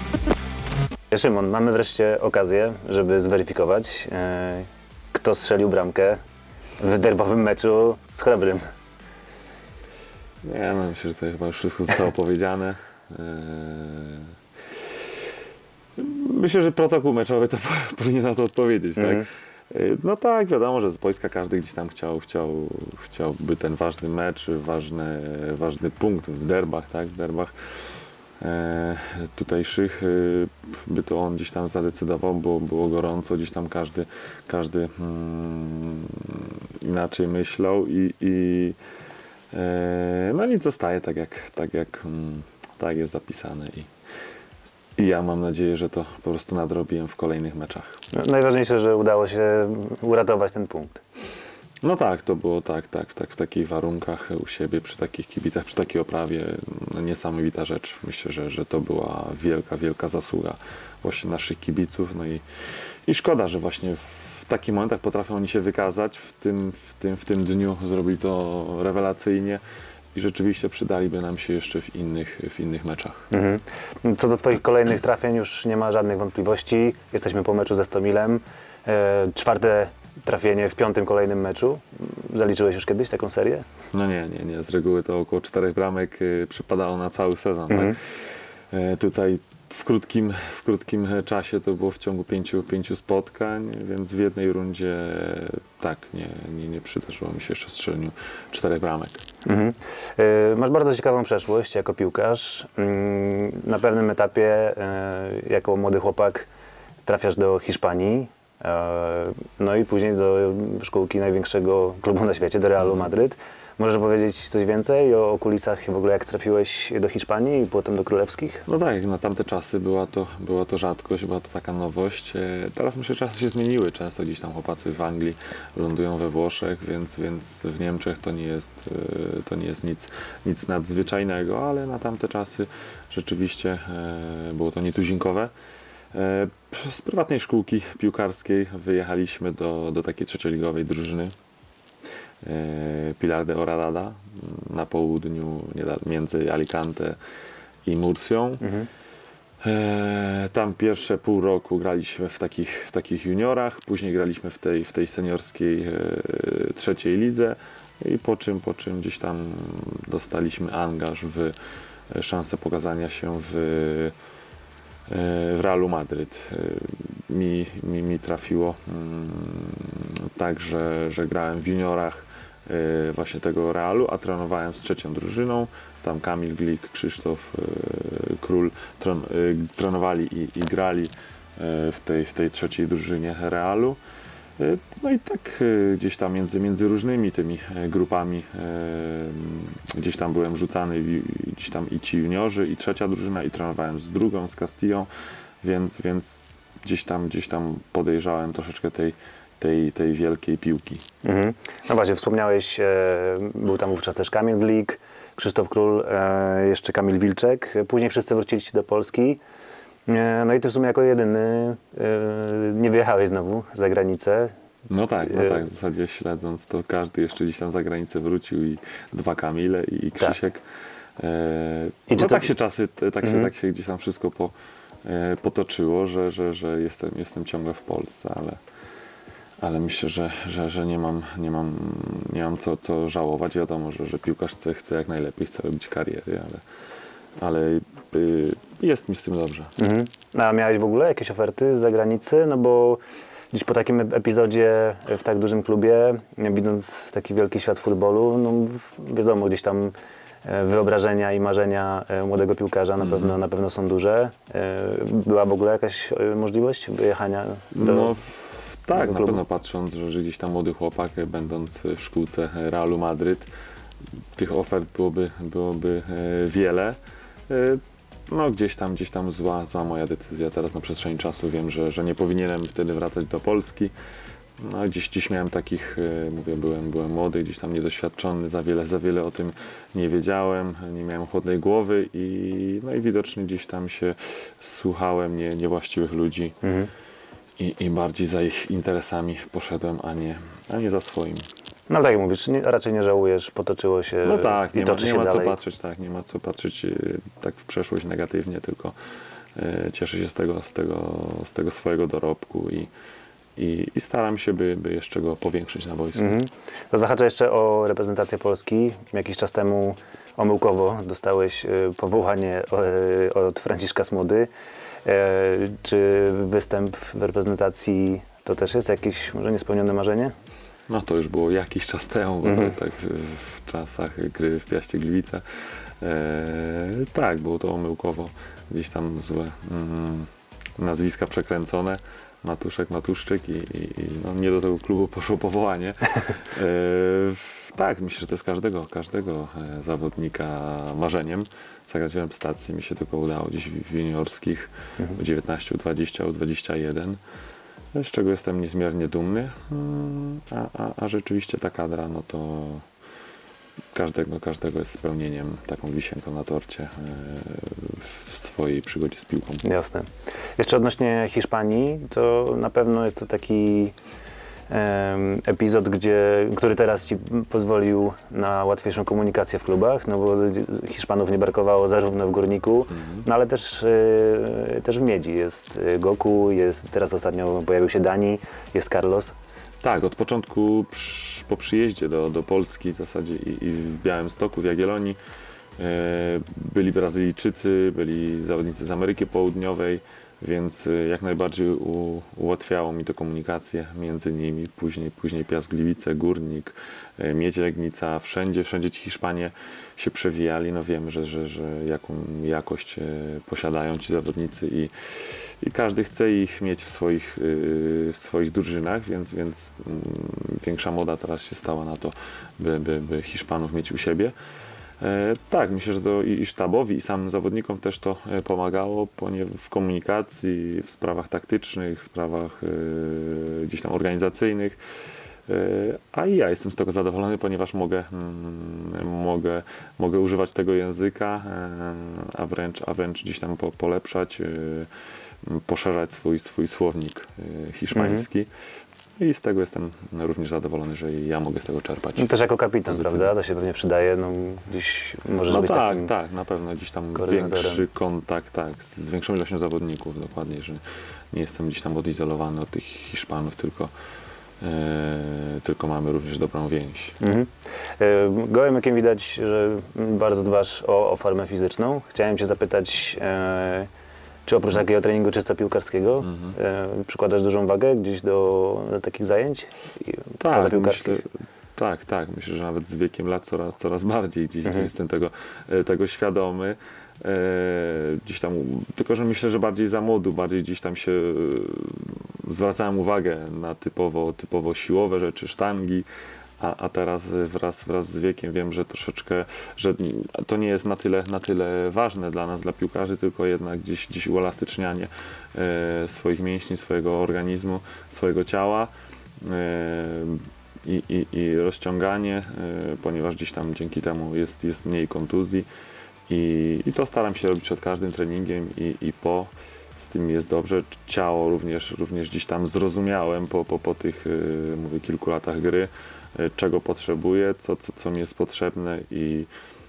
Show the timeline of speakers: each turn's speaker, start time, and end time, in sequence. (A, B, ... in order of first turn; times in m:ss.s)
0:01.1-0:06.2 A
0:06.8-0:08.6 A
0:10.4-0:14.3 B
0:16.0-0:27.5 B
0:19.0-0:19.3 A
0:28.4-0:38.8 B
0:39.5-0:43.9 B
0:45.0-0:48.0 B
0:48.1-0:51.0 A
0:51.8-1:02.4 B
1:03.1-1:09.6 B
1:10.1-1:13.3 B
1:13.3-1:23.6 A
1:23.9-1:28.1 B
1:27.7-1:28.0 A
1:28.7-1:39.2 B
1:39.4-1:46.5 A
1:47.0-1:58.6 A
1:52.8-1:53.1 B
1:58.7-2:15.5 B
2:16.1-2:21.3 B
2:22.4-2:27.2 B
2:27.8-2:28.6 B
2:28.6-2:28.9 A
2:29.6-2:41.6 B
2:42.1-2:44.1 B
2:45.1-3:04.0 B
3:04.6-3:15.1 B
3:15.6-3:21.0 B
3:21.2-3:29.4 A
3:30.1-3:34.5 A
3:34.9-3:40.6 B
3:35.2-3:35.6 A
3:41.2-3:44.5 B
3:42.1-3:42.5 A
3:45.0-3:48.6 B
3:49.6-3:56.6 B
3:57.4-3:59.7 B
3:59.8-4:03.0 A
4:03.5-4:09.9 A
4:10.4-4:18.1 A
4:13.0-4:13.4 B
4:17.7-4:23.5 B
4:18.9-4:19.4 A
4:24.4-4:33.9 B
4:34.6-4:46.6 B
4:46.6-4:46.9 A
4:47.6-4:51.5 B
4:51.9-4:55.6 A
4:54.2-4:58.9 B
4:59.6-5:02.9 B
5:03.6-5:06.4 B
5:06.2-5:14.5 A
5:15.0-5:20.3 A
5:20.9-5:25.4 B
5:22.4-5:22.8 A
5:26.0-5:47.2 B
5:47.9-5:52.8 B
5:53.9-5:59.6 B
5:59.6-6:03.9 A
6:04.7-6:19.3 A
6:12.9-6:13.2 B
6:19.8-6:25.2 B
6:25.8-6:54.3 B
6:55.0-7:04.8 B
7:05.5-7:14.9 B
7:15.4-7:18.5 B
7:17.9-7:18.2 A
7:19.2-7:22.3 B
7:22.2-7:26.1 A
7:22.9-7:23.3 B
7:25.5-7:33.9 B
7:27.1-7:27.8 A
7:34.6-7:37.2 B
7:37.2-7:43.9 A
7:44.4-7:51.2 A
7:46.2-7:46.6 B
7:50.4-8:06.1 B
7:54.6-7:54.9 A
8:06.6-8:25.7 B
8:26.3-8:39.5 B